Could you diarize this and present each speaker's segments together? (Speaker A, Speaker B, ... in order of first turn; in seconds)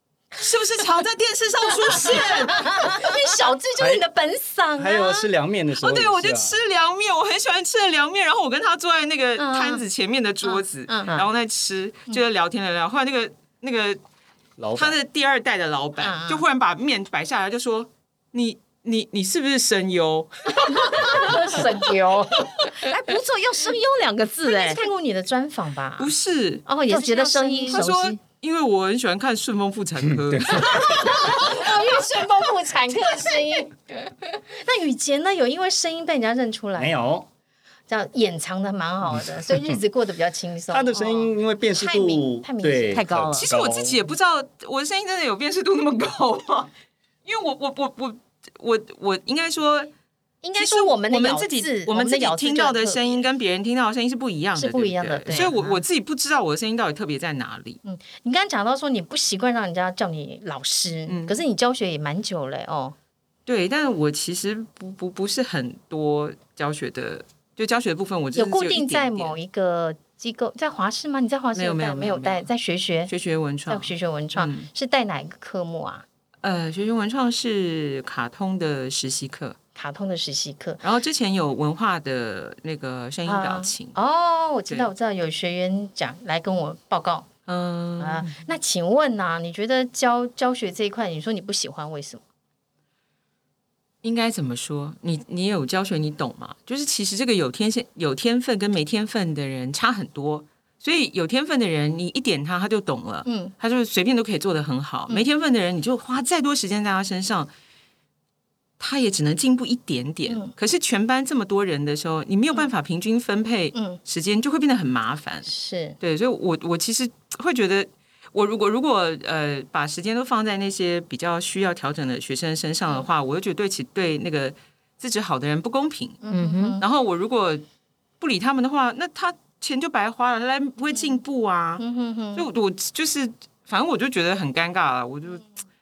Speaker A: 0.4-3.0, 5.8-14.0, 14.8-21.6, 26.0-26.7, 27.7-31.6, 43.4-46.7, 47.2-49.9, 50.6-57.8, 61.1-61.4, 63.5-69.3, 71.5-72.5, 73.1-74.7, 76.4-79.6, 80.8-84.0, 87.5-88.4, 94.0-107.5, 108.8-115.5, 116.0-126.2, 126.8-127.6, 128.2-131.8, 132.3-135.5
Speaker B: 1.9-5.3, 9.4-9.8, 10.4-11.2, 16.0-16.4, 20.6-22.9, 24.4-26.1, 26.7-27.8, 30.8-36.9, 37.9-43.1, 50.4-53.2, 54.6-55.6, 57.9-63.0, 68.4-73.1, 73.7-76.0, 79.8-80.8, 83.3-87.3, 88.0-92.2, 103.3-103.5, 115.5-116.0, 126.2-126.8, 130.9-131.2, 131.8-132.5
Speaker C: 3.8-4.1, 4.8-6.6, 14.6-15.0, 30.1-31.2, 36.8-37.3, 40.7-44.0
Speaker D: 22.8-24.8, 26.9-28.2, 42.9-43.5, 55.3-55.8, 126.3-126.8